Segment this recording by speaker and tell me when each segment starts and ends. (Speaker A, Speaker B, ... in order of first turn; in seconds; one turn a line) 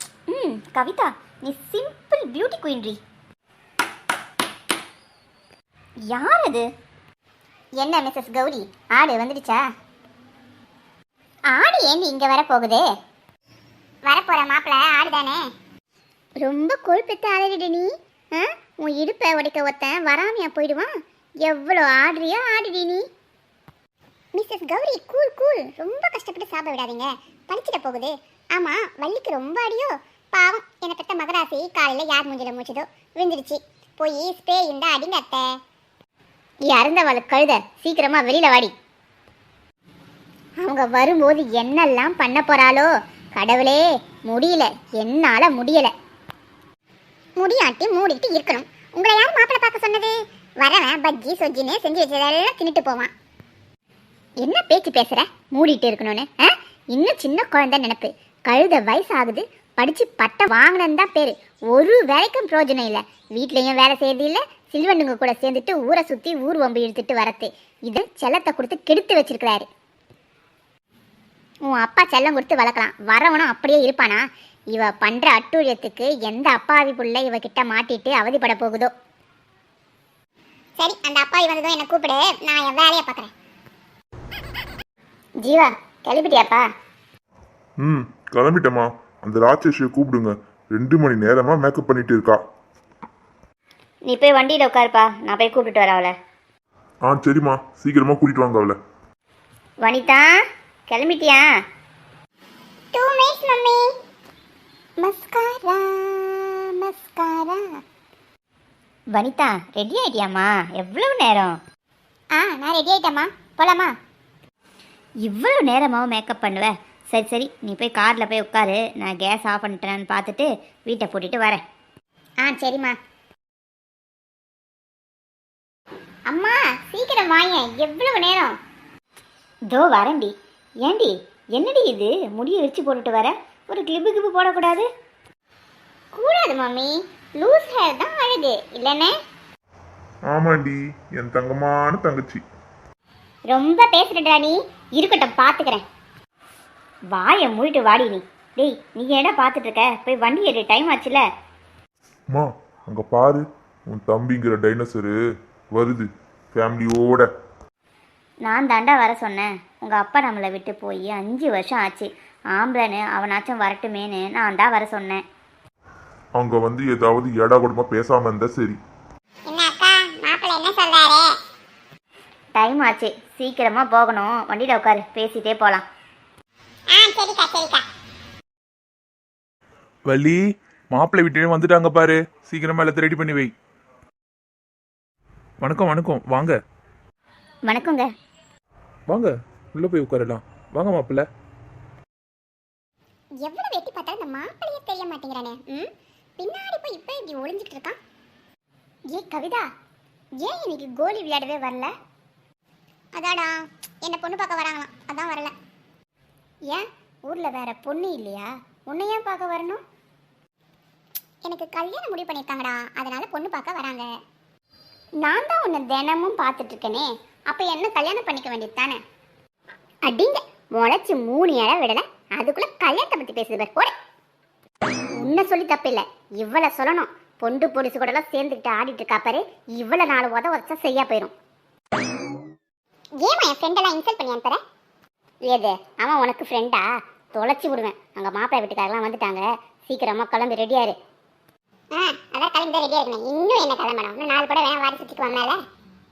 Speaker A: 0.3-3.0
Speaker A: 6.1-6.7
Speaker B: 7.8-9.6
Speaker B: 11.5-12.8
Speaker B: 14.1-15.4
Speaker B: 16.4-20.9
Speaker B: 21.4-23.0
Speaker B: 24.3-35.5
Speaker B: 36.7-38.7
Speaker B: 40.6-45.9
Speaker B: 47.4-53.1
Speaker B: 54.4-69.7
Speaker B: 71.7-78.9
Speaker B: 80.8-83.3
Speaker B: 85.4-86.7
Speaker C: 87.8-92.4
Speaker A: 94.1-96.1
Speaker C: 97.1-98.8
Speaker A: 99.8-101.5
Speaker B: 102.9-103.8
Speaker B: 105.0-107.6
Speaker A: 109.1-111.5
Speaker B: 112.3-113.9
Speaker A: 115.2-121.6
Speaker B: 122.4-123.0
Speaker B: 126.3-128.5
Speaker A: 129.7-130.3
Speaker A: 130.8-134.9
Speaker B: 136.1-139.1
Speaker C: 140.3-142.4
Speaker B: 143.5-145.8
Speaker A: 147.1-151.2
Speaker C: 152.3-155.1
Speaker C: 155.7-157.3
Speaker A: 158.4-165.2
Speaker C: 166.4-168.8
Speaker B: 169.5-171.3
Speaker A: 172.5-175.8
Speaker B: 176.9-177.8
Speaker D: 180.1-180.4
Speaker D: 180.9-183.5
Speaker D: 185.6-186.6
Speaker A: 187.7-188.0
Speaker D: 189.1-191.2
Speaker B: 193.4-198.0
Speaker B: 199.1-199.7
Speaker B: 200.4-201.9
Speaker B: 203.2-205.5
Speaker B: 206.7-209.8
Speaker B: 211.4-214.1
Speaker B: 215.2-219.0
Speaker B: 220.1-223.9
Speaker B: 225.2-231.3
Speaker B: 233.2-234.6
Speaker B: 235.5-240.9
Speaker B: 241.9-245.6